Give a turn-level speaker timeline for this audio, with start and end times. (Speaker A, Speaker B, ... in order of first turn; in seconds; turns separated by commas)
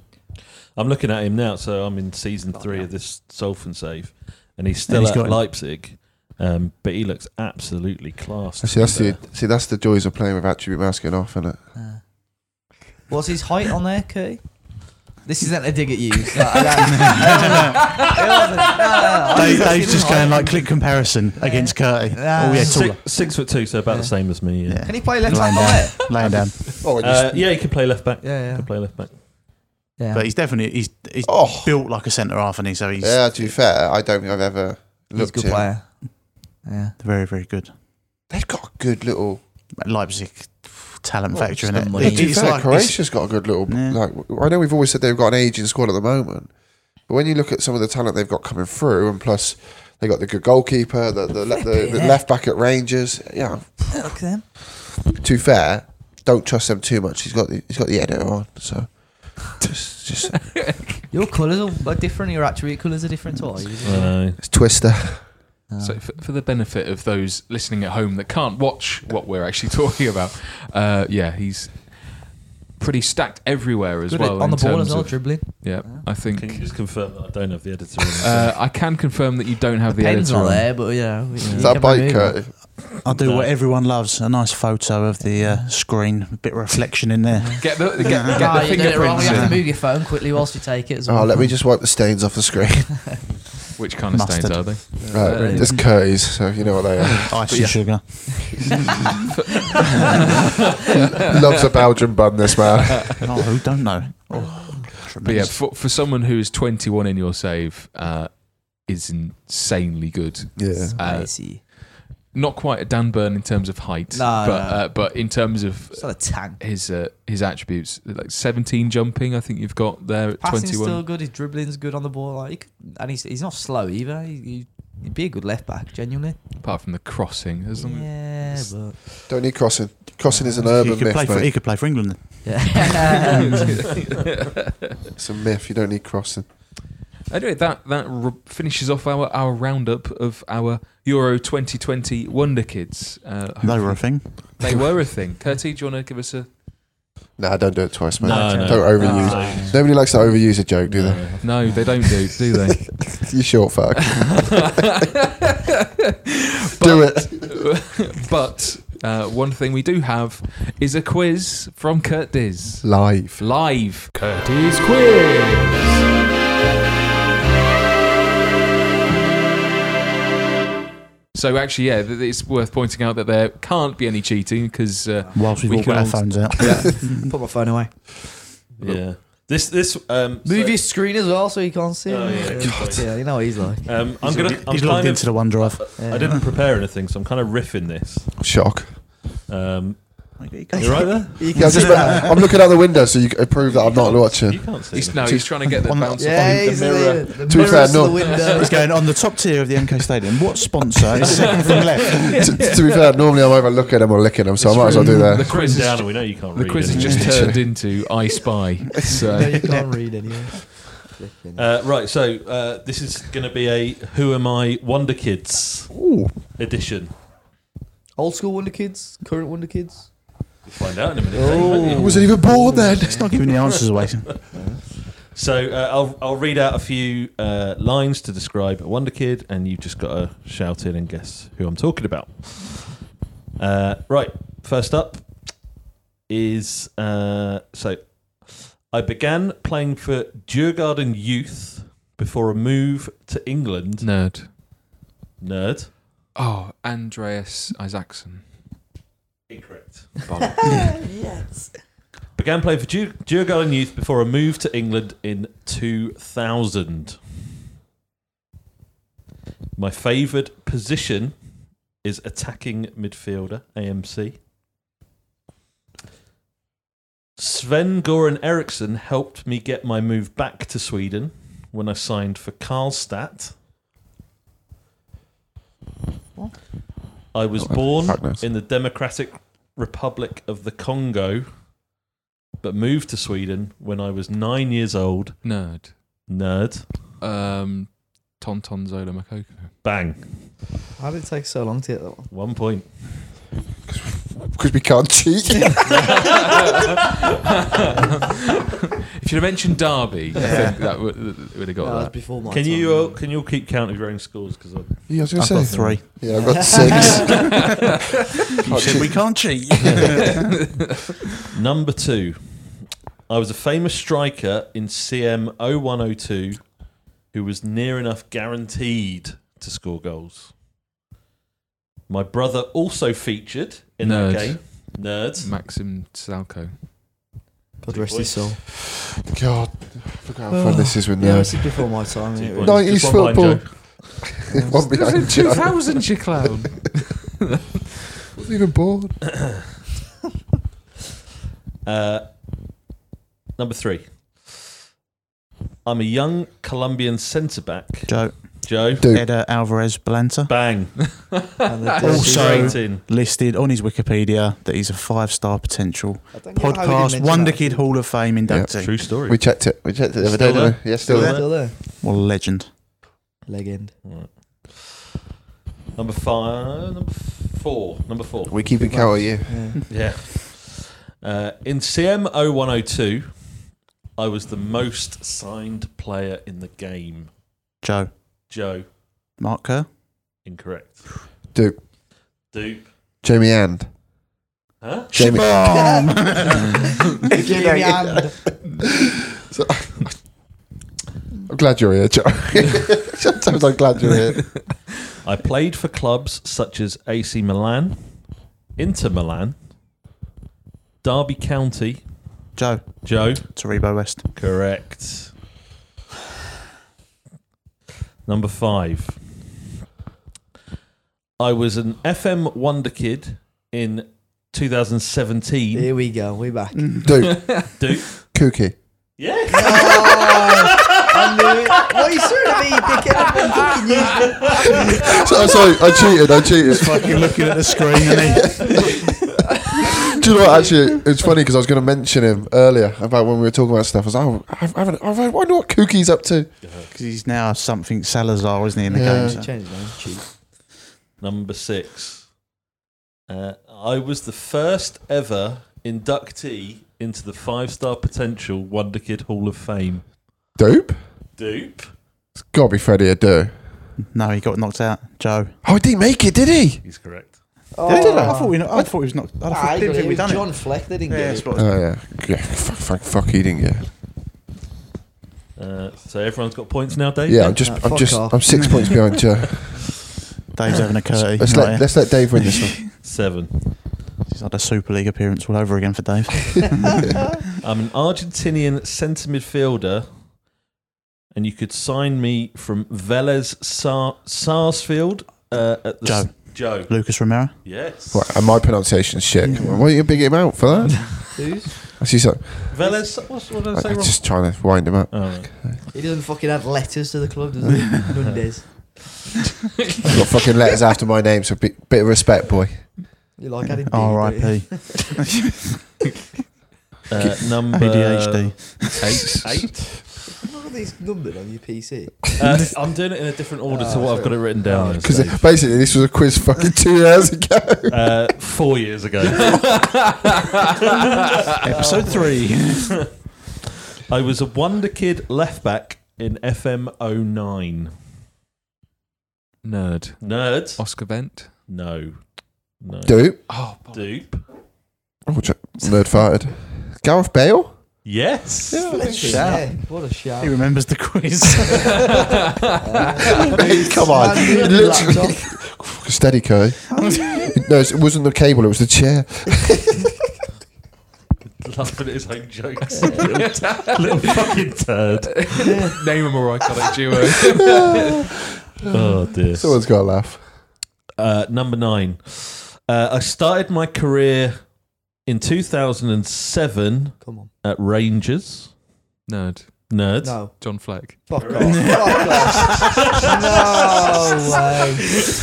Speaker A: 0.7-9.2, Speaker B: 2.5-2.9, Speaker C: 4.9-5.4, Speaker D: 8.6-11.6, Speaker B: 11.7-12.0, Speaker B: 13.1-23.3, Speaker C: 16.9-17.8, Speaker C: 19.3-23.0, Speaker A: 22.6-25.4, Speaker B: 23.9-26.1, Speaker C: 24.7-26.8, Speaker A: 26.2-29.5, Speaker D: 26.8-27.5, Speaker B: 28.2-28.7, Speaker B: 30.0-30.3, Speaker C: 30.1-33.3, Speaker D: 31.2-31.8, Speaker D: 33.0-35.7, Speaker B: 35.1-37.0, Speaker C: 37.0-37.7, Speaker D: 38.3-39.4, Speaker C: 39.8-44.0, Speaker D: 41.3-46.5, Speaker B: 41.6-42.6, Speaker D: 47.0-54.2, Speaker B: 51.6-52.2, Speaker B: 53.9-54.5, Speaker D: 55.0-60.7, Speaker E: 60.5-61.0, Speaker B: 61.1-64.2, Speaker A: 63.8-64.4, Speaker D: 64.4-65.3, Speaker B: 65.7-66.0, Speaker E: 65.8-76.7, Speaker B: 74.1-76.0, Speaker A: 76.3-78.6, Speaker E: 78.2-80.7, Speaker B: 79.9-82.4, Speaker A: 81.4-81.7, Speaker D: 81.5-82.7, Speaker C: 83.0-89.6, Speaker A: 83.0-83.5, Speaker B: 85.4-85.7, Speaker B: 87.4-91.5, Speaker E: 87.6-89.7, Speaker D: 91.1-93.2, Speaker E: 93.8-95.9, Speaker C: 94.1-95.8, Speaker B: 95.0-95.8, Speaker D: 95.1-97.5, Speaker E: 97.0-98.6, Speaker C: 97.2-99.0, Speaker E: 99.3-100.2, Speaker E: 100.9-101.3, Speaker D: 101.2-103.2, Speaker C: 103.2-105.6, Speaker E: 105.2-121.0, Speaker D: 110.6-111.0, Speaker B: 110.8-111.6, Speaker B: 114.1-115.1, Speaker B: 115.9-116.6, Speaker B: 120.4-126.4, Speaker E: 126.6-128.7, Speaker B: 127.8-129.0, Speaker D: 129.3-131.5, Speaker C: 130.5-133.0, Speaker B: 132.4-133.6, Speaker E: 133.5-135.0, Speaker D: 135.2-136.5, Speaker E: 137.3-146.5, Speaker C: 143.6-144.8, Speaker D: 147.4-151.3, Speaker A: 148.2-149.9, Speaker B: 148.2-149.8, Speaker A: 150.8-151.9, Speaker E: 151.4-153.1, Speaker D: 153.0-154.7, Speaker E: 154.7-155.2, Speaker E: 156.0-166.0, Speaker D: 156.8-157.6, Speaker D: 162.8-163.4, Speaker E: 171.3-176.9, Speaker C: 175.3-177.3, Speaker B: 176.6-178.2, Speaker A: 178.8-180.9, Speaker B: 180.4-183.9, Speaker A: 182.1-188.3, Speaker D: 182.6-183.0, Speaker C: 184.2-186.3, Speaker B: 186.0-186.3, Speaker D: 188.4-189.2, Speaker A: 189.5-191.9, Speaker C: 190.4-192.4, Speaker B: 190.7-192.4, Speaker D: 191.5-195.6, Speaker A: 193.6-195.4, Speaker E: 194.9-198.7, Speaker C: 195.8-196.6, Speaker B: 196.1-198.8, Speaker D: 197.5-198.4, Speaker C: 198.3-202.4, Speaker E: 201.3-202.8, Speaker A: 201.4-201.8, Speaker D: 202.4-205.6, Speaker E: 204.6-209.8, Speaker A: 205.3-207.5, Speaker C: 206.9-207.2, Speaker D: 207.1-207.6, Speaker B: 209.0-211.7, Speaker C: 209.4-210.1, Speaker A: 211.5-217.1, Speaker D: 215.9-216.3, Speaker B: 218.2-220.3, Speaker A: 220.6-222.4, Speaker B: 221.3-223.2, Speaker D: 221.7-223.3, Speaker C: 223.0-224.3, Speaker A: 223.4-224.4, Speaker B: 224.5-224.8, Speaker A: 225.2-233.0, Speaker A: 233.6-235.7, Speaker A: 236.3-244.1, Speaker E: 244.0-244.6, Speaker A: 245.4-245.9, Speaker E: 246.3-248.5, Speaker A: 249.5-250.4, Speaker E: 250.2-251.0, Speaker B: 250.6-251.8, Speaker A: 252.3-257.3, Speaker A: 259.7-264.4, Speaker A: 267.4-273.6, Speaker A: 277.3-281.6, Speaker D: 277.6-278.4, Speaker A: 282.6-285.4, Speaker E: 285.4-286.0, Speaker A: 286.2-287.1, Speaker E: 287.2-289.8, Speaker A: 289.8-290.5, Speaker B: 291.0-292.3, Speaker A: 292.3-292.8, Speaker D: 293.9-296.2, Speaker A: 295.9-296.2, Speaker E: 296.1-298.3, Speaker E: 299.2-302.2, Speaker C: 300.3-300.8, Speaker B: 300.4-301.0, Speaker B: 301.8-303.2, Speaker A: 302.4-307.0, Speaker D: 305.1-307.7, Speaker C: 305.3-307.7, Speaker B: 306.4-307.4, Speaker E: 308.6-309.2, Speaker D: 308.6-310.0, Speaker C: 308.6-310.7, Speaker A: 309.8-310.2, Speaker E: 310.7-311.1, Speaker A: 311.5-320.5, Speaker A: 322.1-325.5, Speaker E: 324.0-326.8, Speaker B: 327.8-328.6, Speaker A: 327.9-328.4, Speaker D: 329.3-331.9, Speaker B: 330.5-333.0, Speaker A: 332.4-334.3, Speaker D: 332.6-336.1, Speaker B: 334.5-334.8, Speaker E: 334.6-337.4, Speaker D: 338.3-339.2, Speaker A: 341.8-342.4, Speaker A: 343.6-344.5, Speaker A: 345.8-349.1, Speaker C: 348.1-350.5, Speaker D: 349.0-349.3, Speaker A: 350.5-351.2, Speaker E: 351.2-352.7, Speaker B: 351.6-352.8, Speaker C: 352.0-359.1, Speaker A: 352.1-353.0, Speaker B: 356.3-357.9, Speaker D: 358.4-361.4, Speaker A: 358.8-359.5, Speaker A: 360.2-361.8, Speaker C: 360.4-362.7, Speaker B: 361.0-361.7, Speaker B: 363.4-363.9, Speaker A: 364.0-364.9, Speaker A: 365.9-368.6, Speaker D: 368.5-369.8, Speaker B: 368.8-369.8, Speaker A: 369.9-377.3, Speaker C: 377.8-378.1, Speaker A: 378.4-379.0, Speaker C: 379.4-379.9, Speaker A: 380.4-381.2, Speaker D: 381.5-381.8, Speaker A: 382.4-382.9, Speaker D: 383.2-383.9, Speaker A: 384.8-385.1, Speaker D: 385.1-386.1, Speaker C: 385.1-387.0, Speaker B: 385.7-388.4, Speaker D: 387.3-390.1, Speaker D: 391.5-394.7, Speaker A: 395.2-399.7, Speaker A: 401.0-402.2, Speaker C: 402.5-404.2, Speaker A: 403.0-403.6, Speaker A: 404.3-405.4, Speaker A: 408.2-409.4, Speaker A: 411.4-415.9, Speaker B: 415.7-417.2, Speaker C: 416.8-417.1, Speaker D: 417.0-418.8, Speaker A: 417.8-418.1, Speaker A: 419.2-421.9, Speaker B: 419.5-425.8, Speaker A: 424.1-424.6, Speaker D: 425.2-427.2, Speaker C: 426.6-428.7, Speaker D: 430.1-436.5, Speaker B: 430.4-430.7, Speaker A: 436.6-436.9, Speaker C: 436.9-439.5, Speaker D: 438.9-439.4, Speaker B: 438.9-440.3, Speaker A: 441.2-442.4, Speaker A: 443.3-450.1, Speaker D: 450.6-451.0, Speaker A: 451.4-451.9, Speaker D: 452.4-453.7, Speaker C: 454.0-455.5, Speaker D: 455.6-456.8, Speaker A: 456.8-457.8, Speaker B: 457.7-458.6, Speaker C: 457.8-461.7, Speaker D: 457.9-458.9, Speaker B: 459.5-461.5, Speaker D: 461.5-463.9, Speaker A: 465.6-467.6, Speaker D: 467.2-469.9, Speaker B: 467.4-468.7, Speaker C: 470.5-472.9, Speaker D: 471.1-472.9, Speaker A: 473.0-474.0, Speaker C: 474.2-477.3, Speaker A: 477.6-480.2, Speaker A: 481.3-488.4, Speaker C: 486.0-487.6, Speaker D: 488.1-491.3, Speaker B: 489.4-490.3, Speaker C: 489.5-489.8, Speaker B: 491.2-491.8, Speaker D: 492.0-493.0, Speaker A: 492.7-494.4, Speaker D: 493.7-495.8, Speaker A: 495.1-495.6, Speaker B: 495.9-499.1, Speaker E: 499.9-500.2, Speaker D: 500.1-503.0, Speaker B: 503.4-505.1, Speaker C: 503.6-505.8, Speaker A: 507.1-510.1, Speaker C: 507.7-509.4, Speaker E: 509.0-509.8, Speaker B: 510.4-512.2, Speaker A: 512.4-515.6, Speaker B: 513.7-515.2, Speaker D: 515.0-518.0, Speaker A: 517.9-519.9, Speaker E: 519.4-520.3, Speaker C: 521.6-522.9, Speaker B: 521.6-522.4, Speaker A: 522.1-523.1, Speaker A: 524.1-528.0, Speaker E: 529.6-531.6, Speaker A: 530.2-534.5, Speaker D: 533.1-533.5, Speaker E: 533.5-534.2, Speaker D: 535.2-538.2, Speaker A: 538.0-539.0, Speaker D: 538.7-539.0, Speaker C: 538.8-542.2, Speaker B: 538.9-540.6, Speaker B: 542.8-545.6, Speaker D: 543.5-550.0, Speaker B: 546.9-547.5, Speaker C: 547.0-547.5, Speaker A: 551.5-555.9, Speaker E: 552.9-554.4, Speaker E: 555.4-558.3, Speaker B: 555.6-555.9, Speaker A: 558.9-559.8, Speaker D: 559.5-560.4, Speaker A: 561.1-568.7, Speaker B: 567.2-567.5, Speaker E: 569.3-571.3, Speaker A: 569.9-570.5, Speaker B: 570.2-575.0, Speaker A: 571.3-572.4, Speaker C: 571.6-572.6, Speaker A: 573.0-573.4, Speaker A: 573.9-574.2